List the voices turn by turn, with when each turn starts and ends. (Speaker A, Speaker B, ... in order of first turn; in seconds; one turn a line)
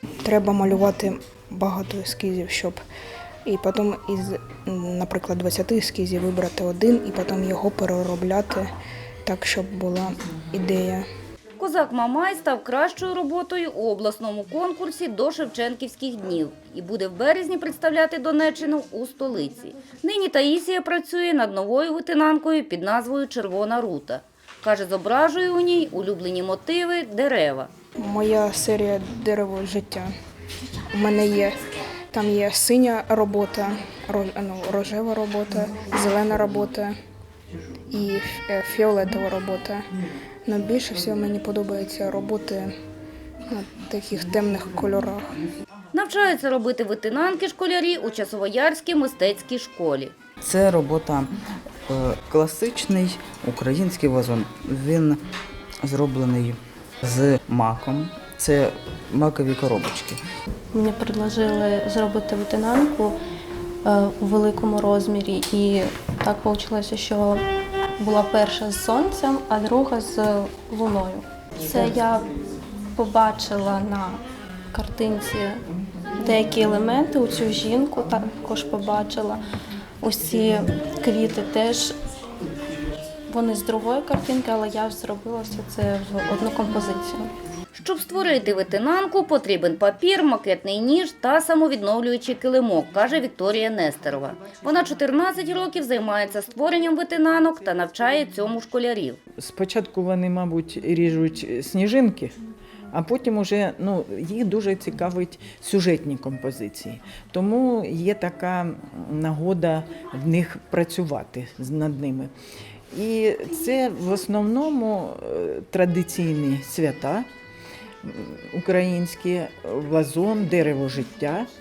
Speaker A: 0.2-2.8
Speaker A: 3.5-8.7
Speaker A: 9.3-11.1
Speaker B: 11.6-27.7
Speaker A: 28.0-30.1
Speaker A: 30.9-31.5
Speaker A: 32.1-36.9
Speaker A: 37.9-39.8
Speaker A: 40.5-42.7
Speaker A: 43.5-45.4
Speaker B: 45.9-50.1
Speaker C: 50.4-51.3
Speaker C: 51.9-55.2
Speaker C: 55.8-60.2
Speaker D: 60.7-63.2
Speaker D: 63.8-67.4
Speaker D: 68.0-72.3
Speaker D: 73.0-75.6
Speaker D: 76.2-79.4
Speaker D: 80.0-81.9
Speaker D: 83.3-87.3
Speaker B: 87.8-99.2
Speaker E: 99.4-102.3
Speaker E: 102.9-112.3
Speaker E: 112.9-117.3
Speaker E: 118.0-121.5